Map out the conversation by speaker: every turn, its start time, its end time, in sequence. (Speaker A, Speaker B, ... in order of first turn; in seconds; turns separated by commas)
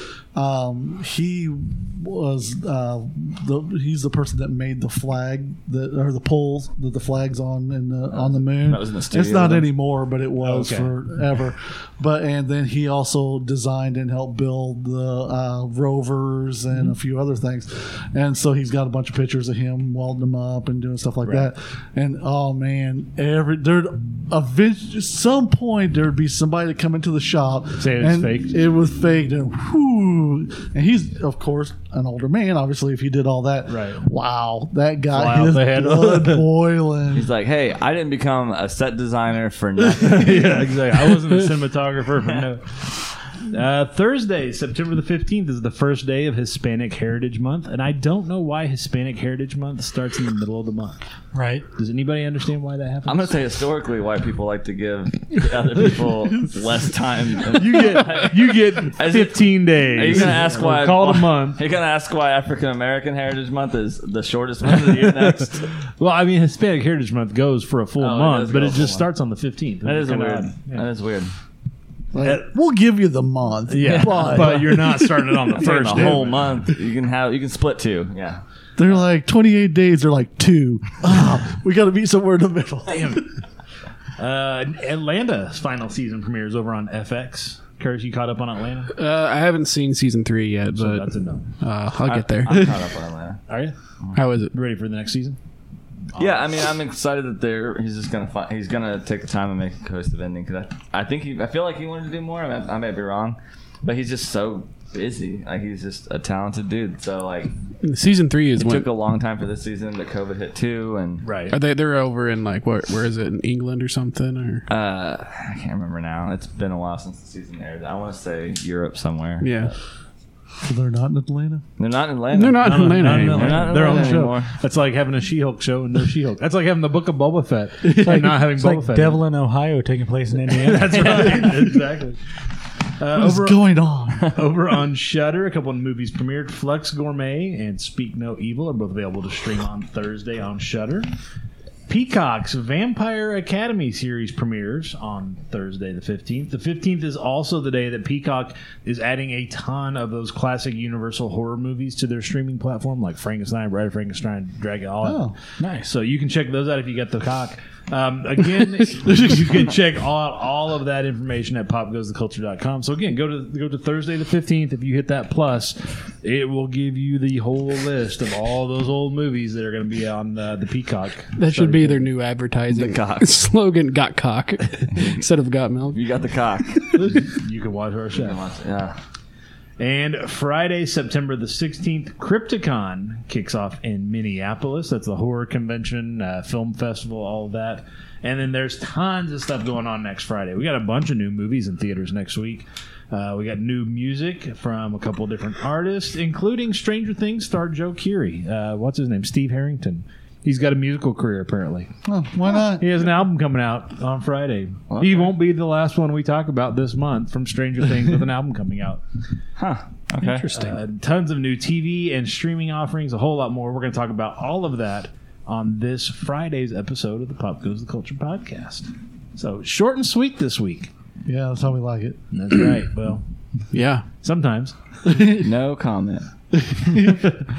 Speaker A: 0.3-37.3, Speaker B: 8.1-9.7, Speaker C: 10.4-10.9, Speaker C: 27.8-28.6, Speaker C: 33.7-34.1, Speaker C: 35.1-36.5, Speaker B: 37.1-40.6, Speaker C: 39.9-51.0, Speaker D: 51.4-51.6, Speaker C: 51.8-53.4, Speaker B: 53.1-65.7, Speaker C: 57.5-61.6, Speaker C: 64.7-70.9, Speaker B: 68.0-69.1, Speaker B: 69.8-71.3, Speaker A: 72.1-76.8, Speaker C: 73.7-76.5, Speaker B: 73.8-74.7, Speaker B: 75.5-78.4, Speaker A: 78.8-83.2, Speaker C: 82.9-83.3, Speaker C: 84.2-88.9, Speaker E: 89.0-91.1, Speaker C: 90.8-91.5, Speaker E: 91.6-92.7, Speaker B: 92.0-93.4, Speaker C: 93.5-93.8, Speaker E: 94.1-94.5, Speaker C: 94.5-95.4, Speaker C: 96.1-96.4, Speaker B: 96.2-107.5, Speaker E: 107.8-108.9, Speaker B: 108.6-111.3, Speaker C: 111.2-111.6, Speaker E: 111.5-114.7, Speaker B: 114.7-119.8, Speaker E: 119.4-119.7, Speaker A: 120.6-121.6, Speaker B: 121.8-124.5, Speaker E: 122.3-123.7, Speaker C: 122.6-129.2, Speaker A: 123.7-124.3, Speaker D: 128.0-131.1, Speaker C: 130.5-132.2, Speaker C: 133.0-141.1, Speaker A: 133.2-134.3, Speaker C: 141.9-172.1, Speaker A: 155.0-155.3, Speaker D: 155.6-155.9, Speaker E: 171.4-176.1, Speaker B: 172.7-173.3, Speaker B: 174.9-175.2, Speaker B: 175.9-177.2, Speaker C: 177.0-178.4, Speaker B: 178.1-179.0, Speaker C: 179.8-201.9, Speaker A: 202.1-202.9, Speaker C: 202.8-209.0, Speaker B: 204.9-205.4, Speaker B: 209.6-210.7, Speaker C: 210.5-220.9, Speaker A: 221.2-222.2, Speaker C: 222.3-223.2, Speaker E: 223.7-224.0, Speaker C: 224.2-224.8, Speaker A: 225.1-225.5, Speaker B: 225.2-226.3, Speaker A: 226.7-227.0, Speaker C: 227.0-227.4